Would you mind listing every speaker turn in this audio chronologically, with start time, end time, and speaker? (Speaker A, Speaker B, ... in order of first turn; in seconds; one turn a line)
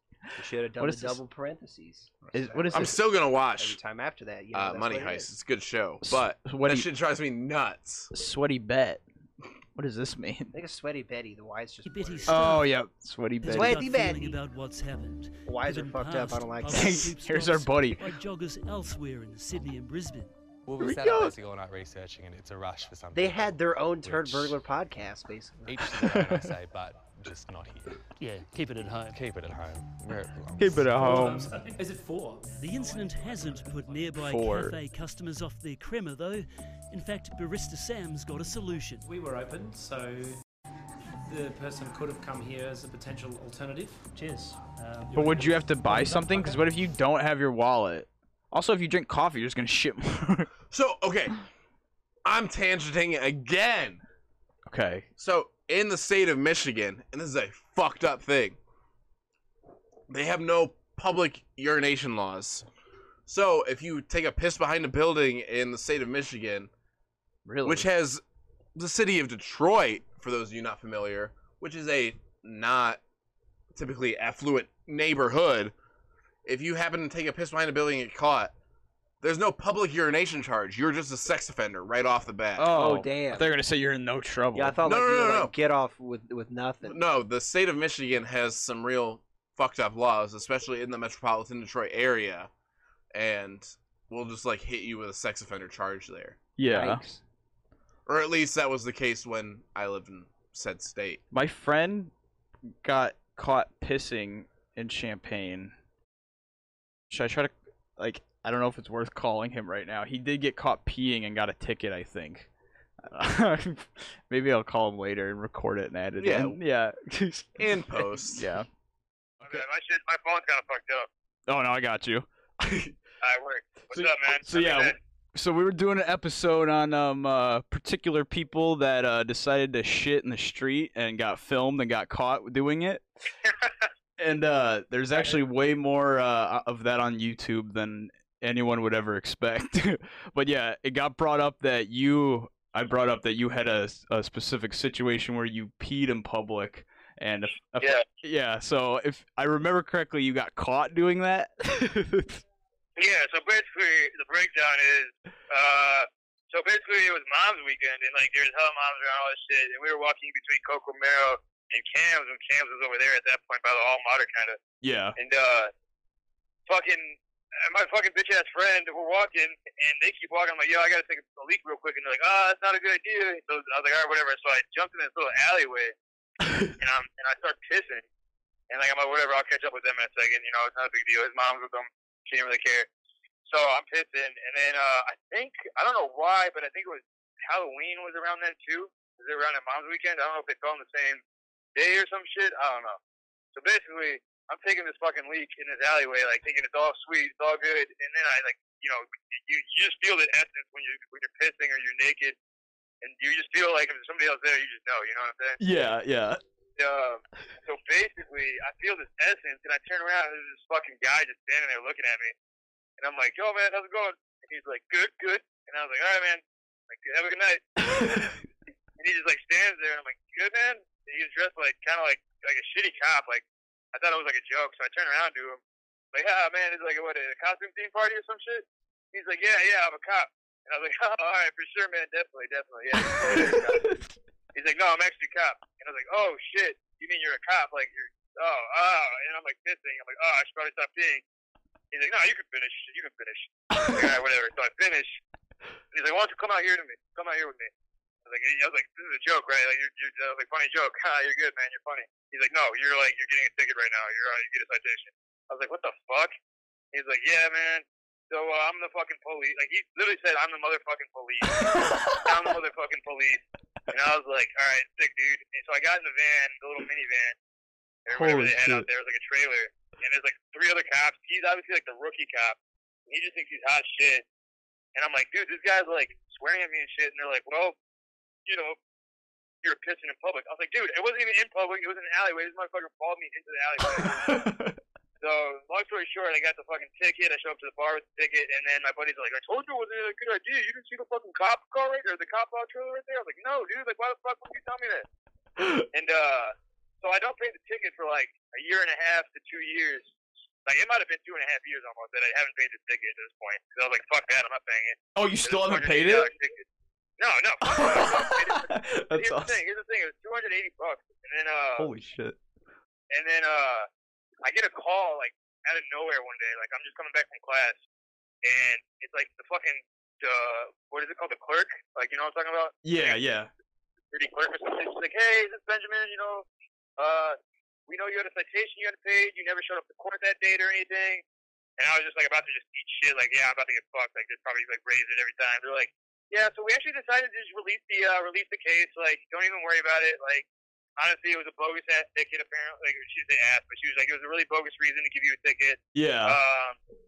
Speaker A: 0.4-5.3
Speaker B: 0.8-1.2
Speaker B: 2.3-3.0
Speaker C: 2.7-3.8
Speaker C: 4.5-8.1
Speaker B: 6.0-6.9
Speaker B: 8.1-9.0
Speaker B: 9.8-10.5
Speaker A: 10.5-12.6
Speaker D: 11.8-12.7
Speaker B: 12.2-13.8
Speaker D: 13.4-20.3
Speaker A: 13.4-14.4
Speaker A: 15.5-17.1
Speaker B: 16.7-18.0
Speaker E: 20.6-24.6
Speaker B: 20.8-21.3
Speaker A: 23.1-25.7
Speaker E: 25.6-28.0
Speaker D: 28.2-29.2
Speaker E: 29.1-31.0
Speaker B: 30.6-31.5
Speaker F: 30.9-32.5
Speaker D: 32.5-39.0
Speaker B: 34.2-34.8
Speaker F: 39.0-40.4
Speaker F: 41.2-46.6
Speaker B: 45.1-50.5
Speaker C: 50.7-51.3
Speaker C: 52.2-54.0
Speaker B: 54.7-55.0
Speaker C: 55.2-58.6
Speaker C: 60.1-62.6
Speaker C: 63.3-66.7
Speaker B: 67.5-67.9
Speaker C: 67.6-68.2
Speaker C: 68.8-73.0
Speaker C: 73.7-75.7
Speaker C: 76.5-78.5
Speaker C: 79.2-82.7
Speaker B: 82.5-84.8
Speaker A: 82.7-83.5
Speaker A: 84.5-87.0
Speaker C: 84.8-85.5
Speaker C: 86.8-92.5
Speaker C: 93.1-96.4
Speaker B: 96.6-97.2
Speaker A: 96.7-97.0
Speaker C: 98.1-101.2
Speaker B: 101.3-102.1
Speaker B: 102.8-105.7
Speaker B: 107.1-112.5
Speaker B: 113.0-118.7
Speaker C: 116.2-116.6
Speaker C: 117.6-118.5
Speaker B: 119.4-119.7
Speaker G: 119.4-121.1
Speaker B: 121.5-122.9
Speaker G: 123.2-125.0
Speaker B: 123.9-133.0
Speaker G: 133.4-133.9
Speaker B: 134.2-152.4
Speaker G: 147.8-148.0
Speaker G: 153.0-164.6
Speaker B: 164.8-165.2
Speaker G: 165.2-165.7
Speaker G: 166.7-175.9
Speaker B: 176.4-176.7
Speaker G: 176.8-178.0
Speaker G: 178.7-182.9
Speaker G: 183.5-191.2
Speaker G: 191.7-193.0
Speaker G: 193.5-202.3
Speaker G: 203.0-205.6
Speaker B: 205.6-206.4
Speaker G: 206.8-212.3
Speaker G: 213.0-217.6
Speaker B: 217.8-218.4
Speaker G: 219.0-225.6
Speaker G: 226.1-233.8
Speaker B: 232.9-234.1
Speaker G: 234.5-241.2
Speaker G: 241.9-245.2
Speaker B: 243.7-244.1
Speaker G: 245.9-247.7
Speaker G: 248.2-256.3
Speaker G: 256.9-267.4
Speaker B: 261.5-262.3
Speaker G: 268.1-272.6
Speaker B: 268.1-268.9
Speaker G: 273.1-274.2
Speaker G: 274.9-277.8
Speaker G: 278.4-278.8
Speaker G: 279.6-284.4
Speaker B: 283.8-284.8
Speaker G: 285.2-295.1
Speaker B: 295.6-295.9
Speaker G: 295.9-300.1
Speaker G: 300.6-306.6
Speaker B: 305.1-306.3
Speaker G: 307.2-311.9
Speaker B: 307.6-309.6
Speaker B: 311.8-312.4
Speaker G: 313.1-313.9
Speaker G: 314.4-317.8
Speaker G: 318.4-323.2
Speaker B: 322.8-323.5
Speaker G: 324.1-326.4
Speaker G: 327.0-331.2
Speaker G: 331.8-340.4
Speaker G: 341.0-346.8
Speaker B: 345.9-346.4